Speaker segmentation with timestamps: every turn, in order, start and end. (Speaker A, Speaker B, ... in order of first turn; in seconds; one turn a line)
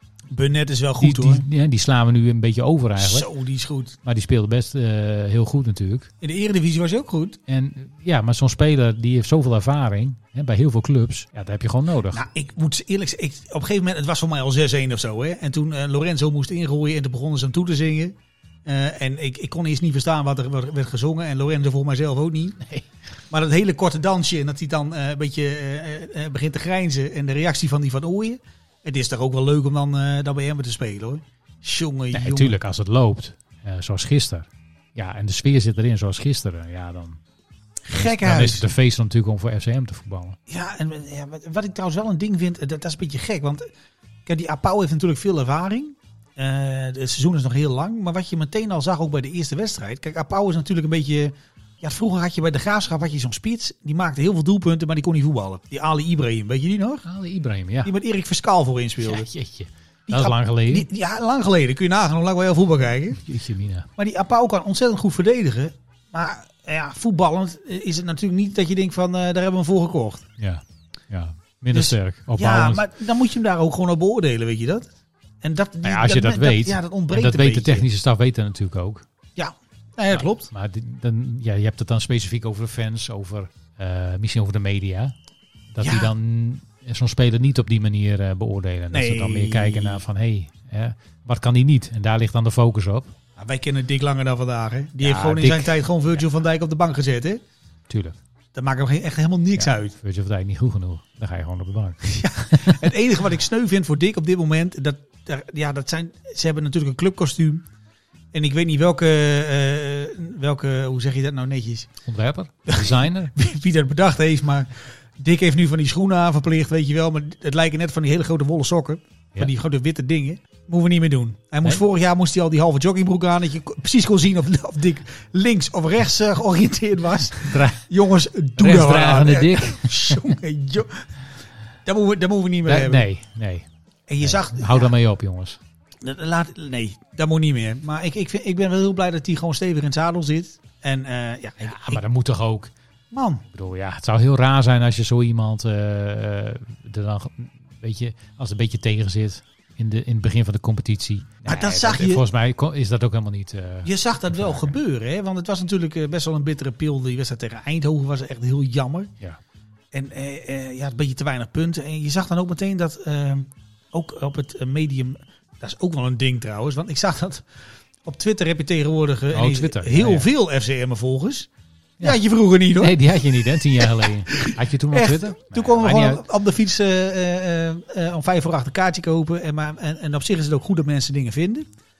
Speaker A: 0.3-1.4
Speaker B: 1.0-3.3
Speaker A: 3.0-4.0
Speaker B: 4.0-6.1
Speaker A: 6.2-7.4
Speaker B: 7.5-12.2
Speaker A: 12.1-22.6
Speaker A: 23.3-32.6
Speaker B: 32.1-37.2
Speaker A: 37.9-38.7
Speaker B: 37.9-40.4
Speaker A: 40.5-43.7
Speaker A: 44.3-57.0
Speaker B: 57.0-57.9
Speaker A: 57.8-59.3
Speaker B: 59.0-60.9
Speaker A: 60.1-63.2
Speaker B: 63.2-63.9
Speaker A: 64.0-70.2
Speaker B: 70.4-72.8
Speaker A: 71.7-74.9
Speaker A: 75.4-77.9
Speaker B: 75.8-79.1
Speaker A: 79.4-80.5
Speaker B: 80.1-85.2
Speaker B: 85.7-93.2
Speaker A: 85.8-86.1
Speaker A: 88.9-90.0
Speaker A: 93.4-97.4
Speaker B: 95.0-96.2
Speaker B: 97.9-98.2
Speaker A: 98.5-100.0
Speaker B: 99.6-102.8
Speaker A: 102.0-107.7
Speaker A: 108.3-111.9
Speaker B: 112.0-113.3
Speaker A: 112.7-131.1
Speaker B: 127.4-127.9
Speaker B: 128.6-130.3
Speaker A: 131.9-133.1
Speaker B: 132.7-133.7
Speaker A: 134.1-134.9
Speaker B: 134.2-135.6
Speaker A: 136.0-142.0
Speaker B: 141.6-142.7
Speaker A: 143.1-143.4
Speaker B: 143.5-154.8
Speaker A: 151.4-152.2
Speaker A: 153.8-159.1
Speaker A: 159.9-167.5
Speaker A: 168.0-171.5
Speaker B: 169.3-170.3
Speaker A: 172.0-181.7
Speaker B: 172.8-176.2